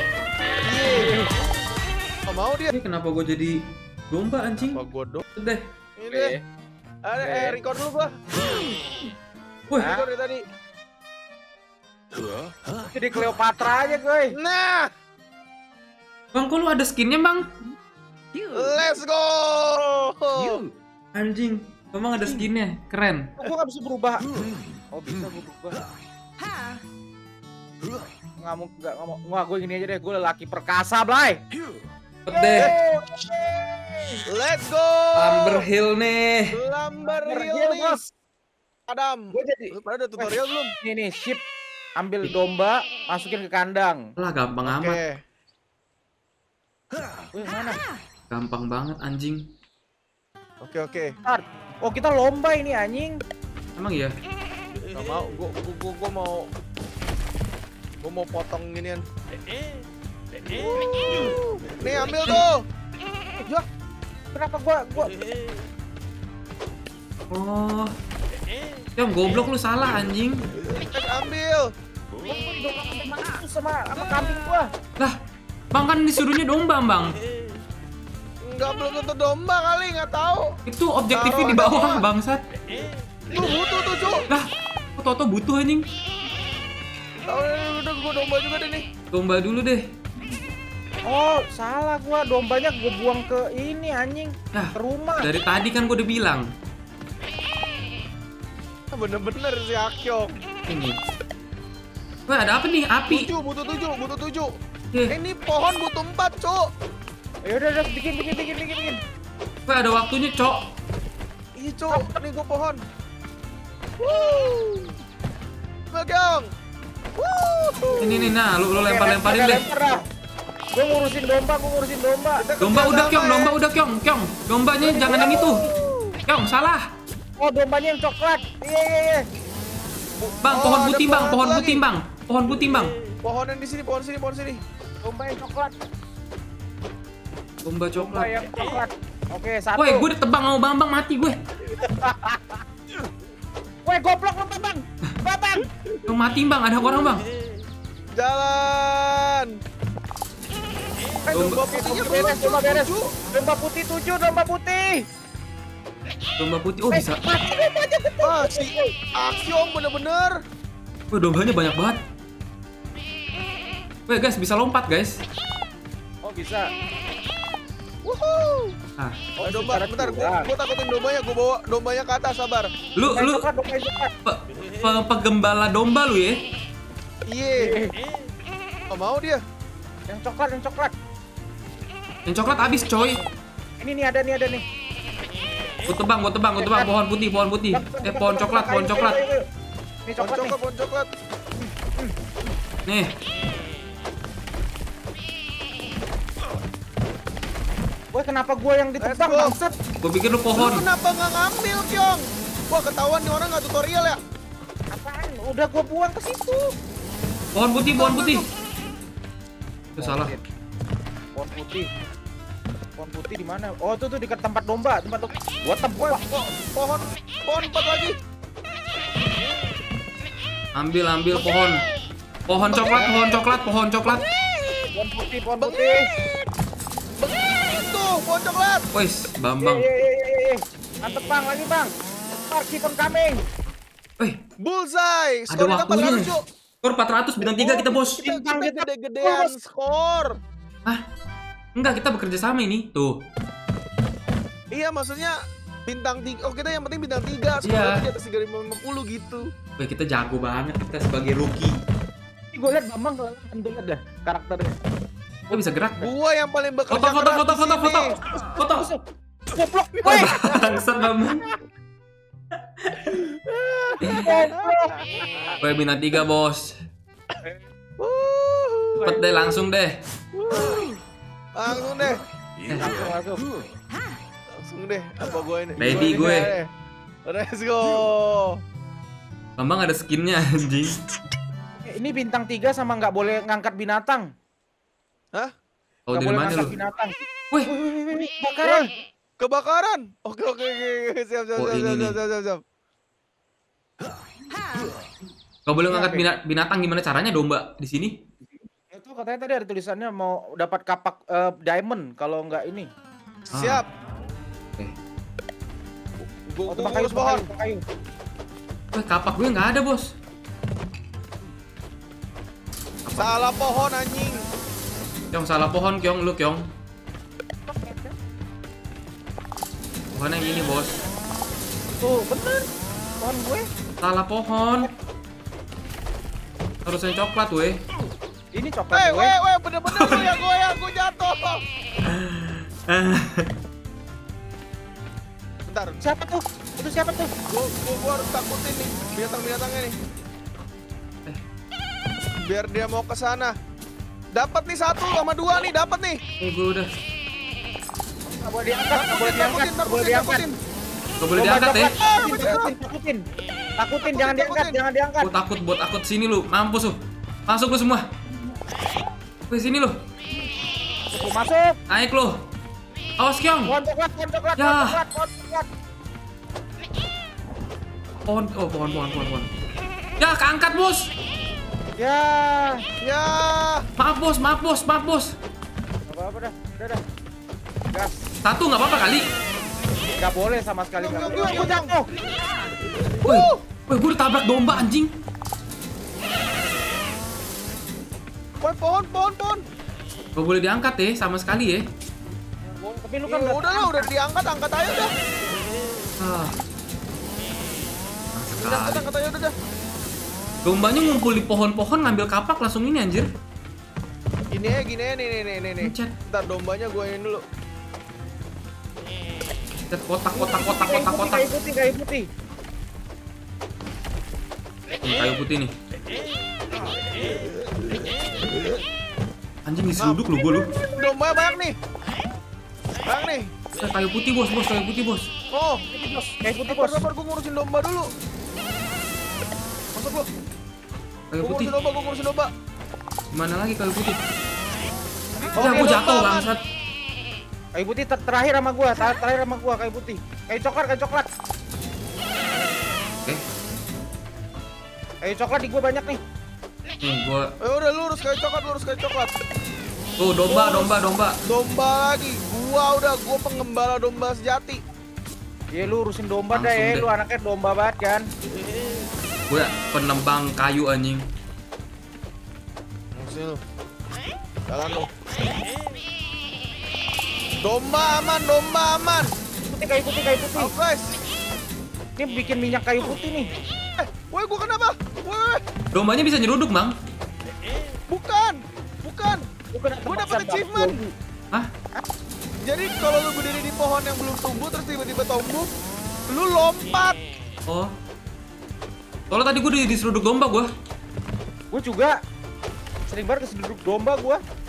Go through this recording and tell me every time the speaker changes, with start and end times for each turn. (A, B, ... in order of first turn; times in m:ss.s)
0:00.6-0:01.1 A
0:00.9-0:01.3 B
0:02.3-0:02.7 A
0:02.7-0:03.5 C
0:04.1-0:04.8 C
0:04.6-0:05.2 A
0:05.4-0:05.6 C
0:06.0-0:06.3 A
0:06.1-0:06.4 B
0:07.1-0:08.1 A
0:07.2-0:07.6 B
0:09.8-0:10.4 A
0:12.8-0:14.3 B
0:14.3-0:14.9 A
0:16.3-0:17.5 C
0:18.5-0:20.6 A
0:21.1-0:23.3 C
0:23.4-0:24.2 B
0:24.9-0:25.8 B
0:28.4-0:31.4 B
0:32.2-0:32.7 C
0:32.3-0:34.2 B
0:34.3-0:35.6 A
0:35.2-0:36.6 C
0:36.5-0:38.0 A
0:37.1-0:38.0 B
0:38.9-0:40.7 A
0:39.3-0:41.4 B
0:42.0-0:44.0 B
0:44.2-0:45.0 C
0:44.6-0:45.2 A
0:47.3-0:47.8 B
0:48.3-0:49.4 C
0:50.6-0:51.1 A
0:51.2-0:53.2 B
0:53.8-0:54.1 C
0:54.9-0:56.5 A
0:58.0-0:59.0 A
1:00.5-1:02.6 A
1:04.3-1:05.1 B
1:07.3-1:07.9 C
1:09.0-1:10.4 C
1:10.7-1:11.7 A
1:12.2-1:14.7 B
1:15.7-1:17.2 C
1:18.4-1:20.5 A
1:20.7-1:22.4 C
1:21.1-1:22.0 A
1:23.3-1:24.2 A
1:24.3-1:25.8 C
1:27.3-1:28.8 A
1:29.1-1:29.8 C
1:31.1-1:35.3 B
1:34.5-1:36.5 C
1:38.9-1:40.4 A
1:40.7-1:41.0 C
1:42.3-1:43.3 C
1:43.1-1:44.5 A
1:45.1-1:46.7 A
1:47.4-1:49.0 B
1:49.7-1:50.6 C
1:51.6-1:52.8 A
1:51.9-1:52.2 B
1:54.0-1:54.9 A
1:55.9-1:56.5 A
1:57.2-1:58.3 A
1:58.0-1:59.6 C
1:58.8-2:00.0 B
2:00.7-2:02.4 B
2:02.4-2:03.6 A
2:02.6-2:05.6 C
2:04.8-2:05.7 B
2:04.8-2:06.2 A
2:06.2-2:06.9 C
2:07.4-2:09.2 B
2:10.4-2:12.9 C
2:10.4-2:11.8 A
2:13.2-2:14.6 A
2:15.0-2:15.7 B
2:17.6-2:18.3 C
2:18.0-2:20.0 B
2:19.8-2:21.4 C
2:21.7-2:22.6 B
2:23.8-2:25.7 B
2:26.0-2:27.2 C
2:28.2-2:29.5 A
2:31.2-2:35.0 B
2:31.3-2:33.1 A
2:31.3-2:31.6 C
2:36.4-2:37.2 C
2:36.9-2:38.9 B
2:38.2-2:40.4 A
2:41.1-2:42.0 C
2:44.1-2:45.2 C
2:46.2-2:46.6 B
2:48.0-2:48.8 A
2:49.4-2:50.5 B
2:49.4-2:52.7 A
2:53.0-2:53.4 C
2:53.1-2:54.1 B
2:54.2-2:56.4 C
2:57.3-2:57.7 A
2:57.6-2:57.9 B
2:58.9-2:59.4 A
3:00.1-3:00.9 B
3:02.2-3:03.2 C
3:03.8-3:04.6 B
3:05.9-3:09.2 C
3:06.6-3:06.9 B
3:07.7-3:09.4 B
3:10.0-3:10.6 B
3:10.2-3:11.1 A
3:11.7-3:12.1 B
3:18.1-3:19.7 B
3:19.0-3:19.5 A
3:20.0-3:20.8 C
3:20.5-3:24.2 A
3:24.9-3:26.7 B
3:27.5-3:28.4 C
3:28.0-3:28.5 A
3:30.0-3:30.3 C
3:30.0-3:30.4 B
3:31.3-3:31.9 B
3:33.0-3:36.2 B
3:36.0-3:38.2 A
3:40.7-3:41.8 C
3:42.5-3:44.2 C
3:42.6-3:43.2 A
3:42.9-3:43.2 B
3:44.1-3:44.9 A
3:44.9-3:46.1 B
3:45.6-3:46.5 A
3:47.2-3:48.9 A
3:48.9-3:49.8 C
3:49.6-3:51.9 B
3:52.5-3:53.4 B
3:54.6-3:56.4 A
3:55.5-3:58.2 C
3:57.4-4:00.4 A
3:58.2-3:59.5 B
4:01.7-4:03.2 C
4:04.7-4:09.4 A
4:07.6-4:08.0 C
4:09.8-4:11.8 C
4:12.5-4:14.8 B
4:15.5-4:15.9 B
4:15.5-4:16.1 C
4:16.0-4:18.2 A
4:16.9-4:18.9 C
4:18.3-4:19.0 B
4:19.5-4:20.8 B
4:20.0-4:21.4 C
4:22.8-4:23.2 C
4:23.1-4:25.5 A
4:24.0-4:25.2 B
4:24.0-4:24.3 C
4:25.6-4:26.8 C
4:28.0-4:29.1 A
4:29.0-4:29.3 B
4:29.0-4:30.0 C
4:30.3-4:30.9 A
4:31.6-4:32.2 A
4:32.7-4:32.9 C
4:32.7-4:33.4 B
4:34.6-4:36.7 A
4:35.8-4:36.5 C
4:37.3-4:38.5 A
4:39.6-4:40.9 C
4:41.8-4:44.2 B
4:46.1-4:46.7 C
4:46.1-4:48.9 B
4:49.4-4:52.6 A
4:51.6-4:52.2 C
4:55.6-4:58.1 C
4:55.9-4:56.2 B
4:58.4-5:02.9 B
5:03.5-5:03.9 A
5:03.5-5:03.8 C
5:06.2-5:07.5 A
5:06.7-5:07.8 B
5:08.9-5:10.1 C
5:13.0-5:13.4 C
5:13.2-5:14.4 A
5:15.3-5:16.7 C
5:17.7-5:18.1 B
5:20.1-5:21.0 C
5:22.0-5:22.7 B
5:23.2-5:23.7 B
5:24.0-5:24.9 C
5:26.8-5:27.8 C
5:28.5-5:29.3 B
5:28.9-5:31.6 A
5:29.9-5:30.3 C
5:32.0-5:33.5 C
5:35.7-5:36.0 A
5:36.0-5:37.3 B
5:37.5-5:40.0 A
5:42.4-5:43.5 A
5:44.3-5:46.2 A
5:46.4-5:46.9 C
5:48.3-5:50.4 B
5:48.9-5:50.6 A
5:51.2-5:51.9 C
5:51.4-5:53.2 B
5:52.0-5:52.7 A
5:53.8-5:55.3 B
5:54.0-5:54.8 A
5:55.2-5:57.0 C
5:57.5-5:58.1 C
5:59.5-6:00.0 C
6:01.1-6:01.8 B
6:01.9-6:02.4 C
6:03.2-6:03.7 C
6:03.6-6:05.7 B
6:04.6-6:05.0 C
6:08.3-6:09.5 C
6:10.2-6:11.1 C
6:12.0-6:12.8 B
6:13.0-6:13.8 A
6:14.0-6:15.3 C
6:16.1-6:17.0 B
6:17.9-6:18.2 B
6:18.4-6:19.2 C
6:20.2-6:22.1 B
6:21.0-6:21.9 A
6:23.2-6:23.6 A
6:23.2-6:25.1 C
6:28.6-6:29.6 A
6:30.4-6:31.8 C
6:32.6-6:34.1 B
6:33.2-6:35.1 A
6:36.2-6:36.6 C
6:38.3-6:39.0 C
6:38.6-6:39.6 A
6:40.6-6:43.3 C
6:44.5-6:47.4 A
6:45.8-6:46.1 C
6:49.9-6:51.4 C
6:50.3-6:52.3 B
6:55.0-6:55.7 C
6:59.6-7:00.7 C
7:00.0-7:01.7 A
7:03.0-7:03.5 A
7:03.8-7:05.3 C
7:05.5-7:05.8 A
7:05.9-7:07.0 B
7:06.7-7:08.1 A
7:09.9-7:10.3 A
7:11.3-7:11.7 C
7:11.4-7:12.5 A
7:13.3-7:14.2 C
7:15.4-7:15.9 B
7:15.5-7:16.5 A
7:15.6-7:16.6 C
7:17.8-7:21.3 B
7:25.2-7:26.2 B
7:27.0-7:27.5 C
7:27.6-7:29.3 A
7:30.2-7:31.4 C
7:30.5-7:34.8 A
7:35.7-7:38.2 B
7:36.5-7:37.0 C
7:39.5-7:41.2 C
7:43.2-7:43.6 A
7:44.7-7:45.1 A
7:47.6-7:49.3 A
7:49.7-7:50.7 B
7:50.6-7:51.1 A
7:52.2-7:53.5 B
7:54.0-7:55.6 A
7:55.9-7:56.9 C
7:58.1-7:59.4 A
7:59.7-8:01.1 B
8:00.1-8:01.0 A
8:02.6-8:05.7 A
8:06.3-8:07.2 A
8:09.3-8:10.7 C
8:11.7-8:12.2 B
8:13.1-8:14.4 B